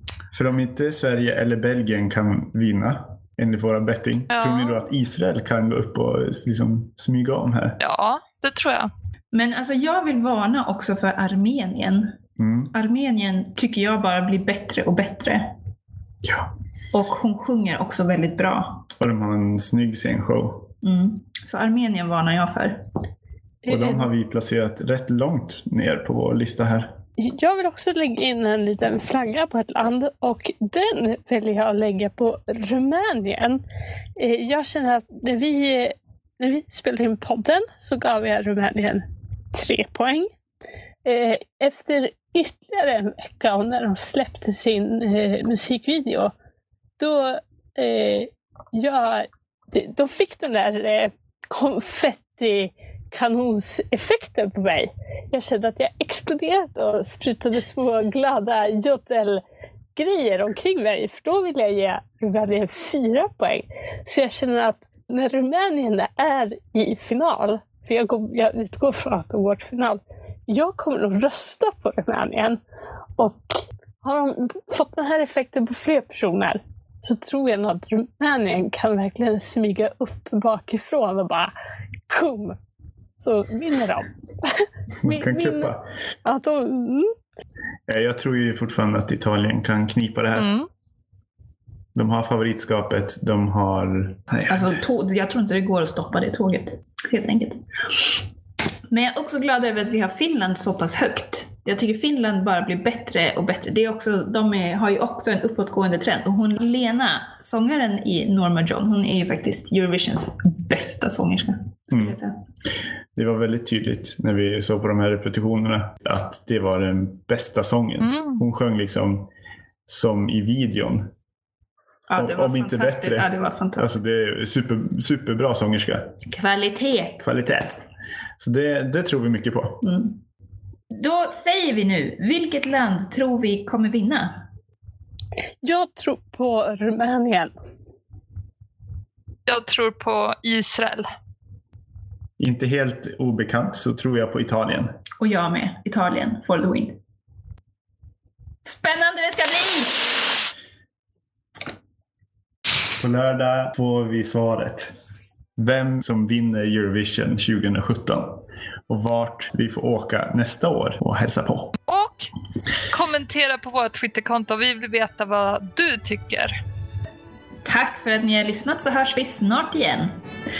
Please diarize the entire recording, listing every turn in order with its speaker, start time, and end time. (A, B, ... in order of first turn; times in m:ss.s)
0:00.3-0:07.8 A
0:04.3-0:04.8 B
0:07.8-0:08.9 B
0:09.3-0:12.2 C
0:12.4-0:12.7 A
0:12.7-0:15.5 C
0:16.2-0:16.5 A
0:16.9-0:18.9 C
0:19.0-0:20.7 A
0:20.8-0:22.8 C
0:23.6-0:24.1 D
0:23.7-0:27.0 A
0:27.2-0:33.6 D
0:34.2-0:40.3 D
0:41.0-0:46.3 D
0:47.0-0:59.4 D
0:59.9-1:12.6 D
1:13.2-1:21.5 D
1:22.1-1:22.6 D
1:23.2-1:25.7 D
1:25.0-1:25.8 A
1:26.2-1:27.2 D
1:27.9-1:30.5 A
1:30.4-1:30.7 B
1:31.9-1:34.8 A
1:34.5-1:37.6 C
1:38.9-1:52.4 C
1:51.9-1:52.2 A
1:53.1-1:59.3 A
1:58.0-1:58.4 B
1:59.9-2:01.1 A
2:02.1-2:03.9 C
2:02.2-2:06.2 A
2:06.3-2:07.2 C
2:07.2-2:07.8 A
2:08.4-2:09.8 A
2:09.8-2:10.2 C
2:10.9-2:14.5 C
2:15.6-2:17.5 D
2:19.5-2:21.1 B
2:22.4-2:24.9 A
2:25.2-2:27.0 C
2:28.6-2:30.4 C
2:33.0-2:34.9 A
2:35.6-2:41.8 A
2:41.9-2:42.3 B
2:42.9-2:46.6 B
2:47.6-2:50.2 C